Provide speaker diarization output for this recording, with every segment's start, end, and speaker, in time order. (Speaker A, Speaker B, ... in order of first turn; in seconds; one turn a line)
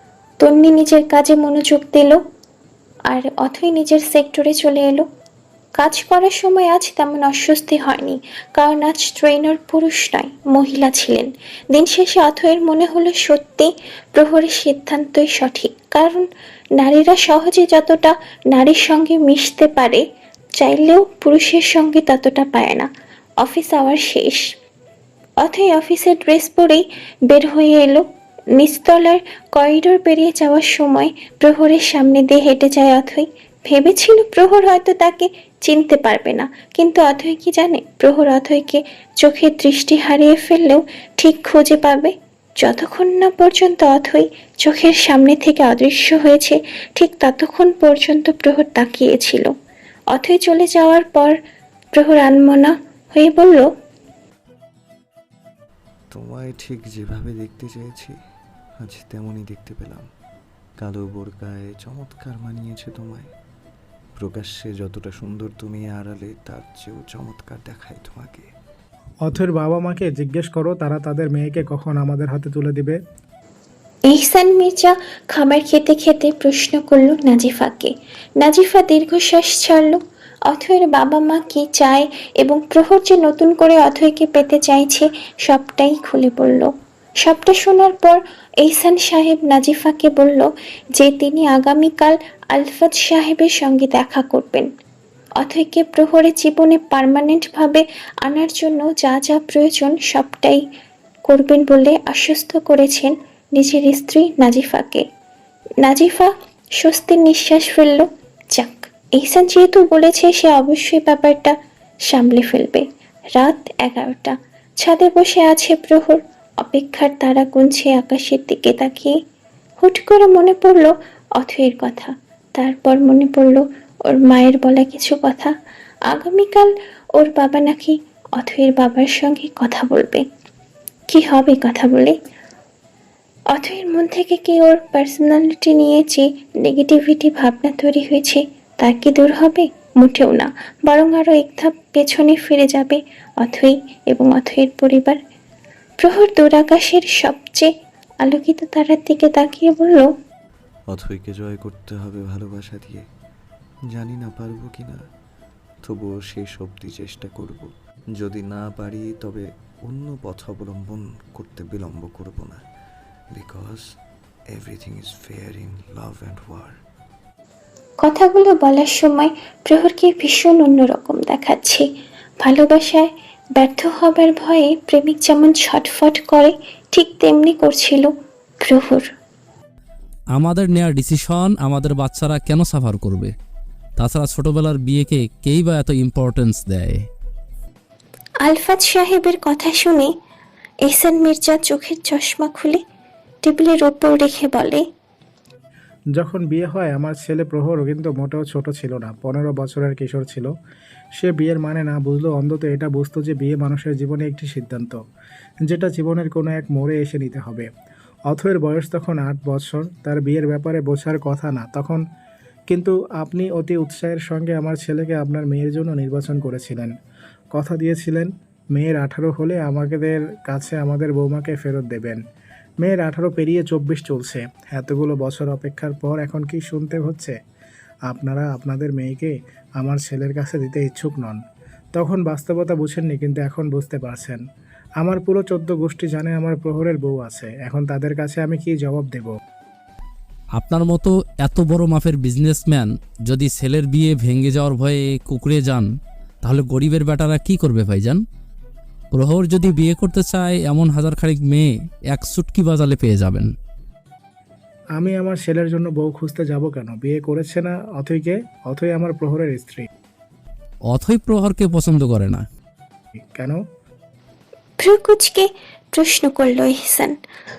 Speaker A: 0.4-2.2
Speaker A: 3.1-5.0
Speaker A: 5.8-20.0
Speaker A: 20.6-22.9
Speaker A: 23.4-24.4
Speaker A: 25.4-49.5
Speaker A: 50.1-51.4
Speaker A: 51.9-53.7
Speaker B: 56.1-58.1
Speaker B: 58.8-60.1
Speaker B: 60.8-63.3
Speaker B: 64.2-68.5
Speaker C: 69.2-73.0
Speaker A: 74.1-94.7
Speaker A: 95.4-100.6
Speaker A: 101.3-105.0
Speaker A: 105.8-111.5
Speaker A: 112.1-112.8
Speaker A: 113.4-119.1
Speaker A: 119.8-125.5
Speaker A: 126.1-130.2
Speaker A: 131.1-132.2
Speaker A: 133.5-145.2
Speaker A: 146.0-147.7
Speaker A: 148.2-150.1
Speaker B: 150.9-153.0
Speaker B: 153.9-155.0
Speaker B: 155.8-162.6
Speaker B: 163.3-163.8
Speaker B: 164.5-166.7
Speaker A: 168.0-171.8
Speaker A: 172.4-178.1
Speaker A: 178.6-179.1
Speaker D: 180.3-183.3
Speaker D: 184.0-187.0
Speaker A: 188.4-190.1
Speaker A: 190.8-192.8
Speaker A: 193.4-194.8
Speaker C: 196.1-200.5
Speaker C: 201.2-205.0
Speaker C: 205.7-207.7
Speaker C: 208.3-212.0
Speaker C: 212.7-216.9
Speaker C: 217.5-222.2
Speaker C: 222.8-227.3
Speaker C: 228.1-231.4
Speaker C: 231.9-234.4
Speaker C: 235.0-239.3
Speaker D: 240.6-245.8
Speaker D: 246.4-248.2
Speaker D: 249.1-253.5
Speaker C: 255.0-259.9
Speaker D: 260.9-262.4
Speaker C: 263.3-263.6
Speaker A: 264.8-267.2